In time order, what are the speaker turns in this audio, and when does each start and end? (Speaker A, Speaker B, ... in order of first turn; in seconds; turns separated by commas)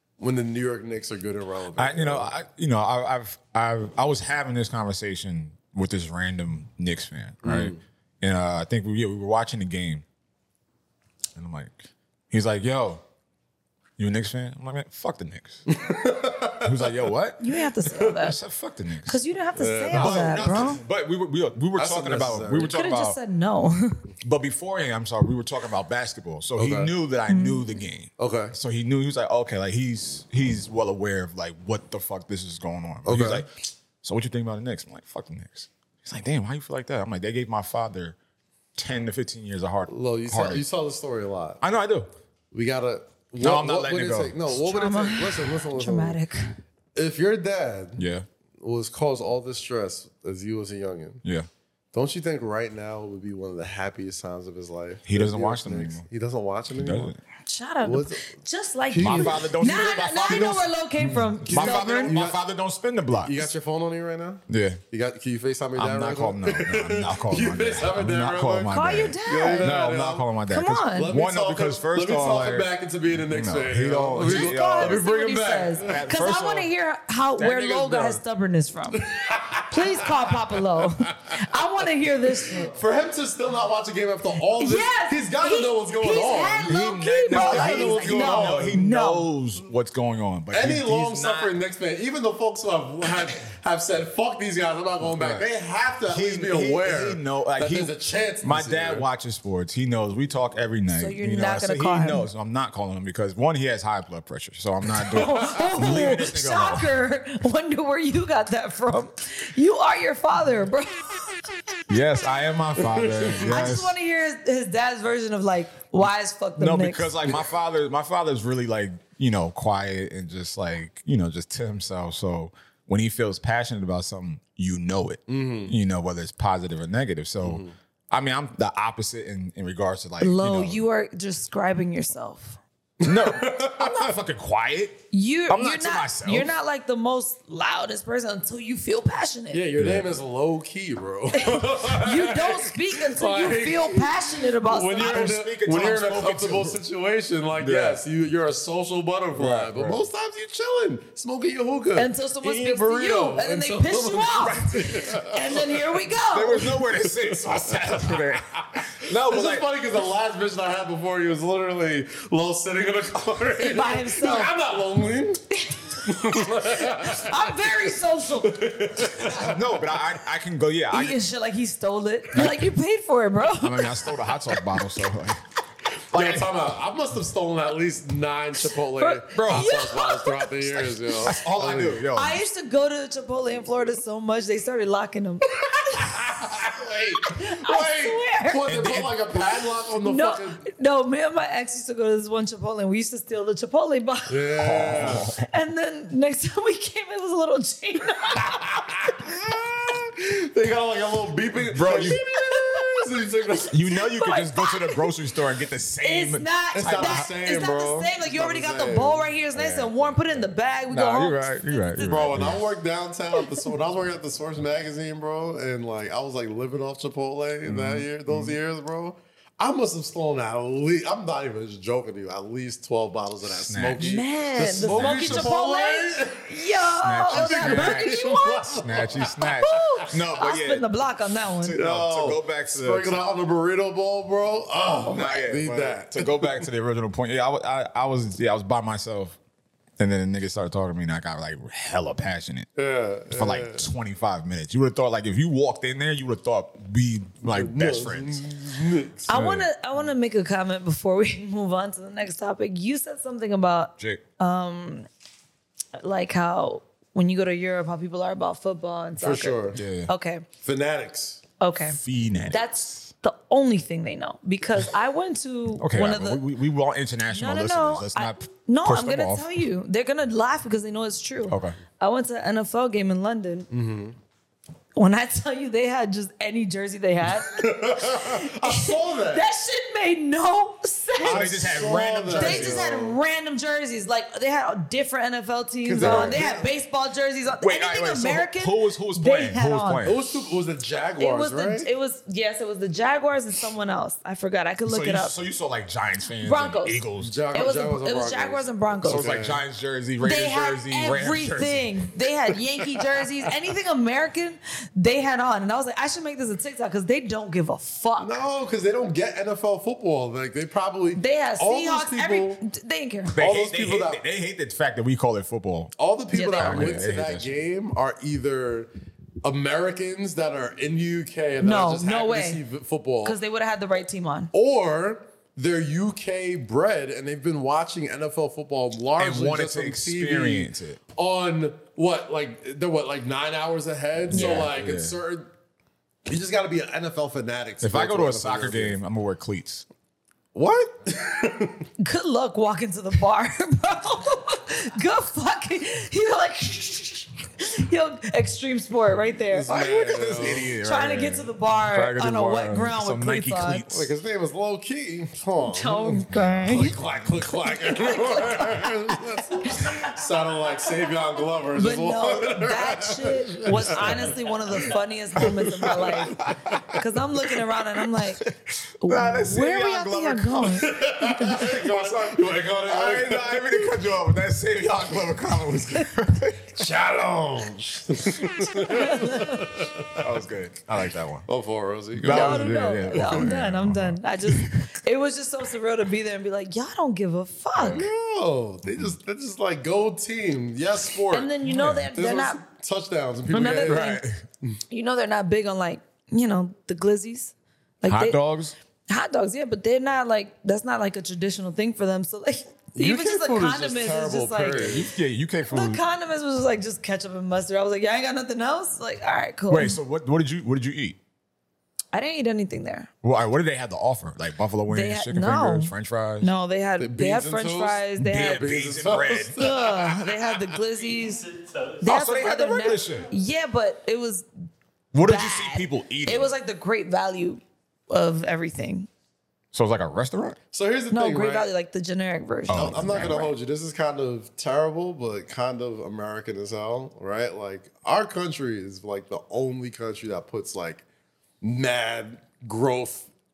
Speaker A: 0.2-2.4, Speaker B: 1.8-10.0, Speaker A: 7.4-7.8, Speaker B: 11.4-13.0, Speaker B: 14.0-15.7, Speaker A: 15.7-17.0, Speaker B: 16.6-19.2, Speaker C: 17.4-18.4, Speaker C: 19.1-20.8, Speaker A: 19.6-20.7, Speaker B: 19.9-23.2, Speaker A: 21.8-22.7, Speaker C: 22.5-24.0, Speaker B: 24.2-38.2, Speaker A: 26.6-26.9, Speaker C: 27.3-27.7, Speaker A: 28.2-28.5, Speaker A: 33.0-33.5, Speaker B: 38.8-40.6, Speaker A: 39.9-41.6, Speaker B: 41.6-42.1, Speaker A: 42.5-46.2, Speaker B: 43.4-44.5, Speaker C: 44.5-46.5, Speaker A: 47.0-48.0, Speaker B: 48.0-48.3, Speaker A: 48.6-51.2, Speaker A: 51.9-57.1, Speaker B: 55.1-56.0, Speaker B: 56.7-57.2, Speaker C: 57.5-62.1, Speaker A: 57.8-58.2, Speaker A: 58.9-59.6, Speaker B: 59.0-63.5, Speaker A: 60.3-60.6, Speaker A: 61.4-62.4, Speaker A: 63.2-70.3, Speaker B: 64.5-64.8, Speaker B: 65.8-75.0, Speaker C: 68.7-69.8, Speaker C: 70.5-71.1, Speaker A: 71.0-76.0, Speaker C: 74.2-79.1, Speaker B: 75.8-76.7, Speaker B: 77.4-78.2, Speaker A: 77.5-78.1, Speaker A: 79.0-80.6, Speaker C: 79.7-82.8, Speaker A: 82.7-88.8, Speaker C: 84.6-89.3, Speaker B: 86.7-91.5, Speaker A: 90.5-99.1, Speaker B: 95.0-95.5, Speaker B: 96.1-106.9, Speaker C: 101.0-102.3, Speaker C: 105.1-111.4, Speaker B: 111.9-114.0, Speaker A: 112.9-113.7, Speaker C: 113.4-117.1, Speaker B: 116.6-130.8, Speaker A: 125.3-125.8, Speaker A: 127.4-127.7, Speaker C: 130.2-132.6, Speaker A: 133.0-134.1, Speaker B: 133.0-136.5, Speaker C: 135.1-139.7, Speaker A: 139.5-155.7, Speaker B: 139.8-140.1, Speaker C: 141.3-145.3, Speaker B: 144.9-146.8, Speaker B: 147.6-148.0, Speaker B: 149.3-150.1, Speaker C: 152.0-156.8, Speaker B: 154.5-155.0, Speaker B: 156.3-159.7, Speaker A: 157.0-167.8, Speaker C: 163.6-164.5, Speaker C: 165.6-168.7, Speaker A: 168.4-169.9, Speaker B: 169.2-171.2, Speaker C: 170.9-174.2, Speaker B: 172.3-172.7, Speaker B: 173.6-175.4, Speaker B: 176.1-176.5, Speaker A: 176.1-182.0, Speaker C: 179.0-180.8, Speaker B: 179.3-179.7, Speaker B: 181.2-182.4, Speaker C: 182.1-186.4, Speaker A: 185.9-190.7, Speaker C: 187.2-189.0, Speaker B: 188.7-189.5, Speaker C: 190.0-194.7, Speaker A: 194.3-195.3, Speaker B: 194.6-195.5, Speaker C: 195.4-199.1, Speaker A: 198.4-203.7, Speaker B: 201.7-202.2, Speaker B: 203.7-207.3, Speaker C: 204.0-205.1, Speaker C: 206.0-212.1, Speaker A: 206.7-210.5, Speaker B: 210.9-212.6, Speaker A: 212.0-226.6, Speaker B: 217.7-218.6, Speaker B: 223.4-224.0, Speaker C: 224.0-228.8, Speaker B: 224.8-225.5, Speaker B: 227.0-228.3, Speaker A: 227.3-230.0, Speaker B: 228.8-230.9, Speaker C: 229.6-231.8, Speaker B: 231.6-233.2, Speaker A: 231.7-236.6, Speaker B: 235.1-239.4, Speaker B: 240.0-242.7, Speaker A: 242.8-243.9, Speaker B: 243.3-248.4, Speaker A: 247.4-249.3, Speaker C: 249.3-255.1, Speaker B: 249.3-249.7, Speaker C: 256.0-260.4, Speaker A: 259.2-259.8, Speaker B: 259.8-260.1, Speaker A: 260.6-261.4, Speaker C: 261.6-266.4, Speaker B: 261.9-262.9, Speaker B: 265.8-269.5, Speaker C: 267.3-273.7, Speaker B: 271.5-271.8, Speaker A: 273.7-274.1, Speaker C: 274.9-281.5, Speaker A: 277.5-279.5, Speaker B: 281.2-282.9, Speaker A: 281.2-283.2, Speaker C: 282.3-290.1, Speaker A: 285.8-286.7, Speaker B: 286.0-286.5, Speaker B: 287.6-290.2, Speaker A: 290.1-291.9, Speaker C: 291.2-295.4, Speaker B: 294.9-297.4, Speaker C: 296.4-297.0, Speaker A: 297.2-299.6, Speaker C: 297.5-299.3, Speaker B: 299.0-302.0, Speaker C: 300.2-308.4, Speaker A: 308.2-312.6, Speaker C: 311.2-313.4, Speaker B: 313.3-315.9, Speaker A: 313.4-314.2, Speaker A: 316.0-318.9, Speaker C: 316.3-317.0, Speaker B: 316.5-317.5, Speaker A: 319.4-323.4, Speaker C: 321.6-322.6, Speaker C: 323.2-324.5, Speaker A: 324.5-335.5, Speaker B: 329.2-331.0, Speaker B: 334.3-335.2, Speaker C: 334.3-334.7, Speaker A: 336.3-339.0, Speaker B: 337.8-339.9, Speaker A: 340.5-341.9, Speaker C: 342.0-349.7, Speaker A: 349.5-350.7, Speaker B: 349.7-354.1, Speaker C: 350.6-353.9, Speaker A: 353.9-364.8, Speaker C: 355.6-357.0, Speaker C: 357.6-360.1, Speaker C: 361.8-366.4, Speaker A: 365.4-366.3, Speaker B: 365.9-367.0, Speaker C: 366.9-368.5, Speaker B: 368.2-376.8, Speaker C: 369.0-370.9, Speaker A: 370.8-373.9, Speaker A: 376.8-380.2, Speaker C: 378.7-379.8, Speaker B: 380.2-381.5, Speaker A: 381.5-383.5, Speaker B: 382.1-384.7, Speaker C: 382.2-388.1, Speaker A: 387.8-391.5, Speaker B: 391.3-392.1, Speaker C: 391.3-392.6, Speaker A: 392.1-394.1, Speaker C: 393.5-394.2, Speaker B: 393.8-394.4, Speaker C: 394.9-398.4, Speaker B: 398.1-398.7, Speaker C: 399.1-405.1, Speaker A: 402.9-405.1, Speaker B: 404.7-406.0, Speaker C: 405.7-410.0, Speaker B: 409.7-411.2, Speaker C: 412.1-413.1, Speaker B: 413.2-416.5, Speaker C: 414.9-418.7, Speaker A: 417.0-420.3, Speaker B: 418.2-419.8, Speaker C: 419.6-421.5, Speaker C: 422.0-424.5, Speaker B: 422.0-423.3, Speaker B: 425.1-426.5, Speaker C: 425.2-429.1, Speaker B: 429.7-430.6, Speaker A: 430.7-431.7, Speaker C: 431.1-433.5, Speaker B: 432.7-433.4, Speaker A: 432.7-441.0, Speaker A: 441.6-443.3